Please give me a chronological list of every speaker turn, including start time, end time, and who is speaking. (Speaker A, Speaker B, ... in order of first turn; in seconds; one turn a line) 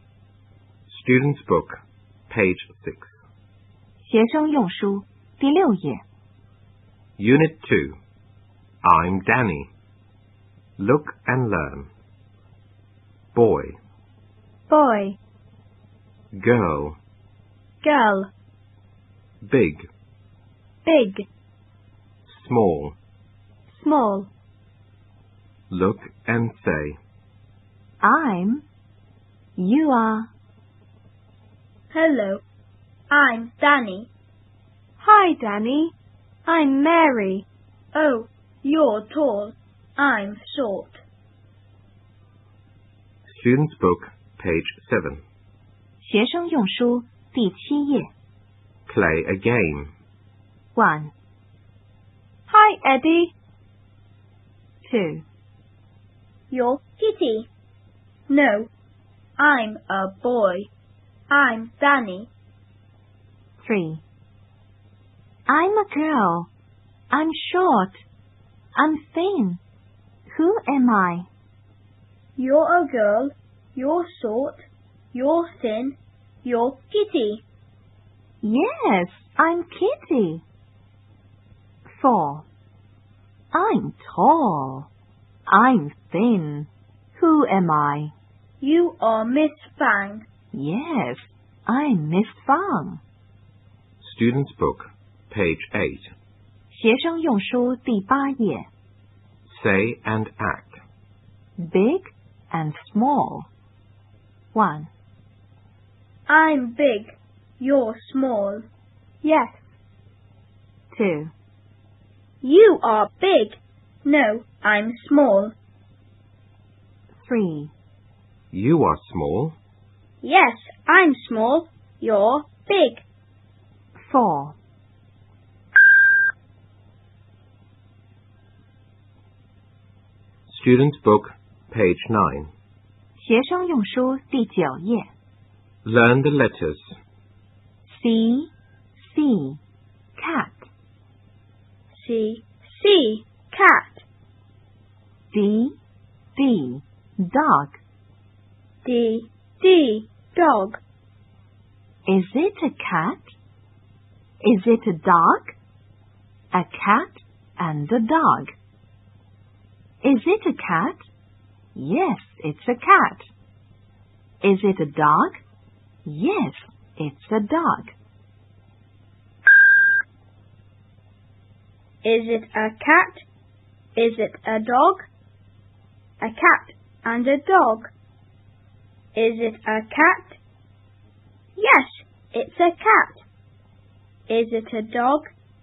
Speaker A: 0.9-1.8
Speaker A: 2.3-3.2
Speaker B: 4.0-6.0
Speaker A: 7.2-8.0
Speaker A: 8.8-9.7
Speaker A: 10.8-11.9
Speaker A: 13.3-13.8
Speaker C: 14.7-15.2
Speaker A: 16.3-17.0
Speaker C: 17.8-18.3
Speaker A: 19.4-19.9
Speaker C: 20.8-21.2
Speaker A: 22.2-22.9
Speaker C: 23.7-24.3
Speaker A: 25.7-27.0
Speaker B: 28.0-28.6
Speaker B: 29.6-30.3
Speaker C: 31.9-32.4
Speaker C: 33.1-34.1
Speaker C: 35.0-35.9
Speaker C: 36.5-41.0
Speaker A: 43.3-45.2
Speaker B: 46.0-48.1
Speaker A: 48.9-49.9
Speaker B: 50.8-51.1
Speaker C: 52.5-53.3
Speaker B: 54.8-55.2
Speaker C: 56.5-57.5
Speaker C: 58.3-58.7
Speaker C: 59.4-60.7
Speaker C: 61.3-62.3
Speaker B: 63.6-64.0
Speaker B: 65.5-66.5
Speaker B: 67.1-68.0
Speaker B: 68.8-69.6
Speaker B: 70.3-71.3
Speaker C: 72.4-77.4
Speaker B: 78.4-80.4
Speaker B: 81.8-82.5
Speaker B: 83.5-84.9
Speaker B: 85.5-88.1
Speaker C: 88.6-90.2
Speaker B: 90.5-93.0
Speaker A: 94.0-96.1
Speaker B: 96.7-98.7
Speaker A: 99.5-100.8
Speaker B: 101.6-103.5
Speaker B: 104.5-104.9
Speaker C: 106.3-108.7
Speaker C: 109.2-109.7
Speaker B: 110.9-111.3
Speaker C: 112.4-115.5
Speaker B: 117.1-117.7
Speaker A: 118.5-119.5
Speaker C: 120.2-123.0
Speaker B: 124.0-124.5
Speaker A: 130.5-132.5
Speaker B: 133.2-135.1
Speaker A: 135.8-136.9
Speaker B: 137.9-139.6
Speaker B: 140.2-140.7
Speaker C: 141.9-144.0
Speaker B: 145.3-145.7
Speaker B: 146.3-147.8
Speaker C: 148.8-150.8
Speaker B: 152.1-153.3
Speaker B: 154.4-155.6
Speaker B: 156.5-158.5
Speaker B: 160.0-161.1
Speaker B: 161.7-163.3
Speaker B: 164.4-165.4
Speaker B: 166.1-167.9
Speaker C: 172.0-173.2
Speaker C: 173.9-175.1
Speaker C: 176.2-177.9
Speaker C: 179.1-180.4
Speaker C: 181.6-183.2
Speaker C: 184.3-185.3